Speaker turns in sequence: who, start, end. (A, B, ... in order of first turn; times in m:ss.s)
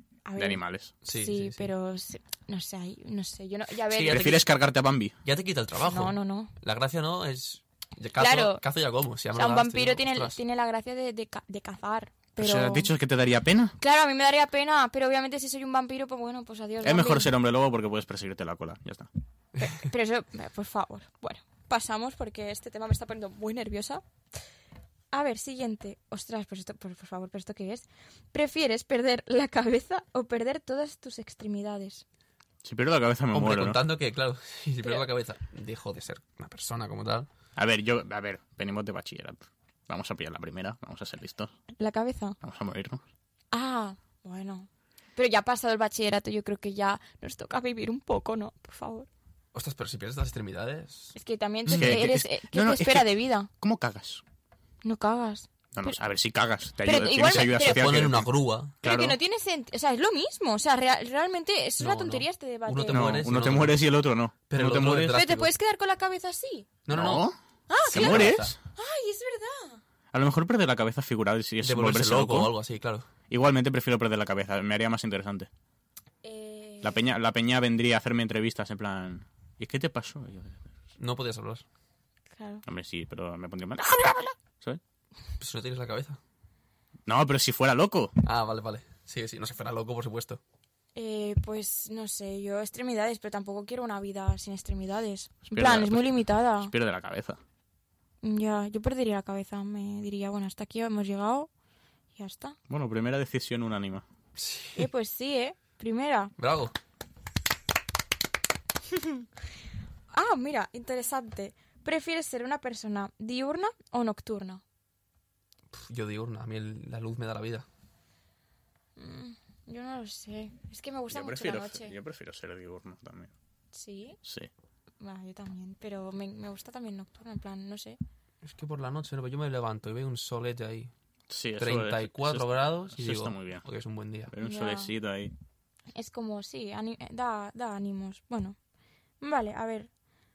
0:00.2-0:04.4 A
0:00.4-0:00.9 B
0:01.0-0:01.7 C
0:03.9-0:04.5 C
0:04.1-0:05.1 B
0:05.2-0:10.4 C
0:05.8-0:06.5 A
0:08.2-0:08.6 A
0:09.3-0:12.9 A
0:12.4-0:13.8 B
0:13.8-0:17.3 A
0:16.8-0:19.1 B
0:19.6-0:24.0 A
0:25.1-0:32.0 A
0:32.6-0:33.8 B
0:33.3-0:37.3 C
0:37.6-0:41.5 B
0:41.8-0:42.4 A
0:42.4-0:43.0 B
0:43.5-0:49.1 A
0:49.5-0:51.1 C
0:51.1-0:53.5 A
0:51.6-0:52.1 C
0:51.7-0:54.2 B
0:54.8-0:56.0 A
0:55.7-0:58.3 B
0:56.8-0:58.0 A
0:57.2-0:58.8 C
0:58.8-0:59.2 B
0:58.8-1:03.2 A
1:01.8-1:03.9 C
1:02.9-1:05.2 B
1:04.5-1:05.5 C
1:05.1-1:06.7 A
1:06.8-1:07.3 C
1:06.9-1:07.3 B
1:07.7-1:09.8 A
1:07.8-1:08.6 C
1:07.9-1:08.6 B
1:10.1-1:12.5 B
1:11.6-1:13.1 C
1:13.3-1:15.5 B
1:16.2-1:17.0 A
1:16.8-1:20.7 B
1:21.0-1:21.6 C
1:22.3-1:22.6 A
1:22.6-1:24.8 B
1:25.4-1:26.2 C
1:27.1-1:28.2 B
1:28.2-1:30.4 C
1:30.9-1:36.7 A
1:35.5-1:37.4 B
1:38.2-1:41.5 A
1:42.2-1:42.6 A
1:42.7-1:44.0 B
1:44.4-1:44.9 C
1:44.7-1:46.3 A
1:46.4-1:46.7 C
1:48.9-1:49.2 A
1:50.1-1:54.6 A
1:55.7-1:57.6 C
1:59.0-2:01.9 A
2:01.1-2:03.3 B
2:03.7-2:04.2 A
2:04.2-2:04.5 B
2:05.0-2:08.0 A
2:08.4-2:10.9 C
2:11.3-2:13.6 B
2:11.6-2:14.3 C
2:14.3-2:15.3 B
2:14.4-2:14.9 A
2:15.9-2:18.6 A
2:19.2-2:19.9 A